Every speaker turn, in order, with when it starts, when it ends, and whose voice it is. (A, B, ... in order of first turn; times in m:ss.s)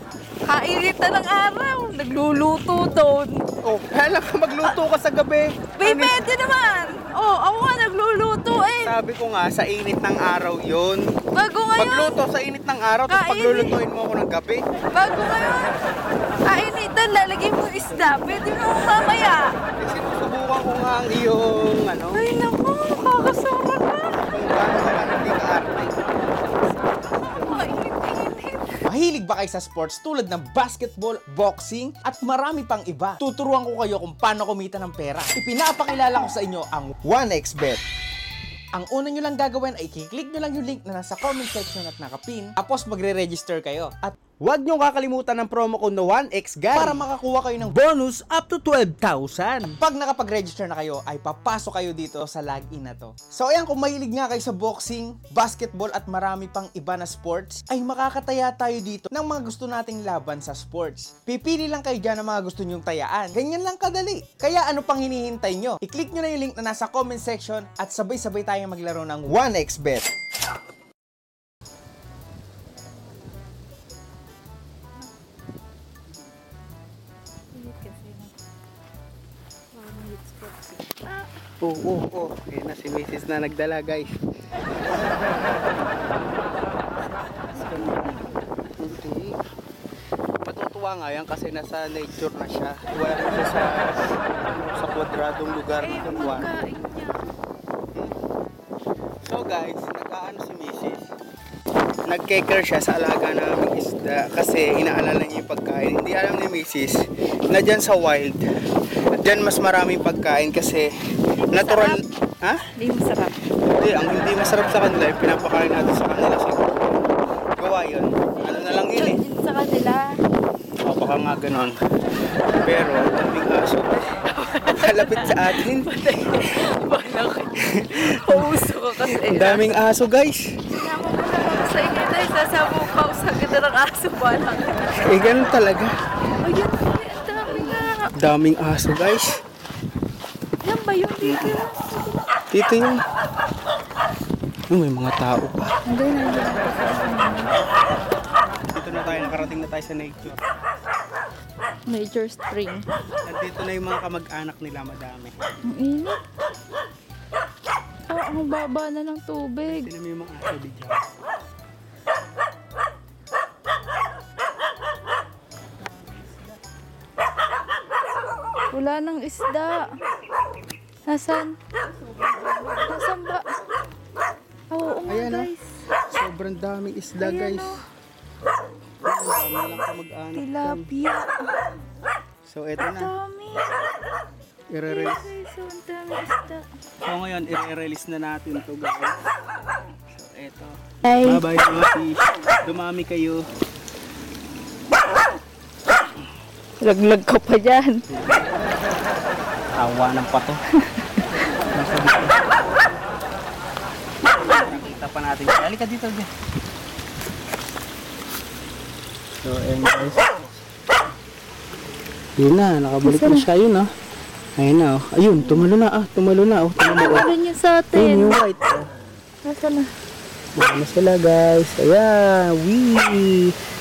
0:00.4-0:03.4 A
0:03.6-0:06.2 B
0:05.8-0:09.0 A
0:08.8-0:11.1 B
0:11.3-0:12.2 A
0:11.8-0:14.6 B
0:13.1-0:13.8 A
0:14.9-0:15.7 A
0:16.4-0:19.5 A
0:19.8-0:22.2 B
0:22.1-0:24.2 A
0:24.3-0:26.0 B
0:26.5-0:28.8 A
0:28.9-0:37.8 C
0:38.7-0:42.6 C
0:42.6-0:47.0 B
0:46.7-0:47.7 C
0:47.6-0:49.8 B
0:49.8-1:10.1 C
1:17.5-1:18.3 A
1:19.7-1:21.3 A
1:21.6-1:24.1 B
1:27.4-1:28.2 A
1:28.8-1:29.4 B
1:30.4-1:36.5 B
1:35.8-1:37.3 A
1:39.2-1:41.0 B
1:42.1-1:48.4 B
1:49.1-1:50.9 B
1:51.4-1:52.0 A
1:51.5-1:52.6 B
1:52.8-1:53.4 A
1:53.7-1:57.0 B
1:57.6-1:59.2 B
1:58.4-2:00.2 A
2:00.8-2:01.8 B
2:02.6-2:04.0 B
2:04.3-2:09.7 A
2:04.6-2:05.9 B
2:07.6-2:10.5 B
2:10.7-2:15.1 A
2:14.9-2:15.9 B
2:16.4-2:18.1 A
2:18.1-2:19.3 B
2:20.6-2:22.3 A
2:21.2-2:21.6 B
2:22.5-2:23.0 B
2:24.7-2:25.7 B
2:25.8-2:27.6 A
2:28.7-2:30.4 B
2:29.0-2:29.5 A
2:31.9-2:32.8 A
2:33.2-2:35.3 B
2:35.7-2:36.2 A
2:38.1-2:39.9 A
2:39.6-2:41.0 B
2:48.7-2:49.9 A
2:51.1-2:51.6 A
2:52.7-2:53.5 A
2:54.7-2:55.8 A
2:55.1-2:55.5 B
2:56.1-2:57.8 B
2:57.2-2:57.8 A
2:59.0-3:00.9 B
3:00.3-3:01.6 A
3:02.4-3:03.1 B
3:02.8-3:03.8 A
3:04.7-3:05.3 B
3:04.8-3:06.6 A
3:07.0-3:09.2 B
3:10.1-3:13.4 B
3:11.0-3:11.5 A
3:16.8-3:18.0 A
3:18.1-3:18.4 B
3:19.8-3:20.6 B
3:20.9-3:21.3 A
3:21.7-3:22.6 B
3:24.4-3:26.3 B
3:29.4-3:30.4 B
3:32.4-3:33.9 B
3:33.0-3:33.5 A
3:34.6-3:37.3 B
3:35.3-3:35.6 A
3:36.8-3:38.4 A
3:37.9-3:38.8 B
3:39.4-3:39.9 A
3:40.6-3:43.5 B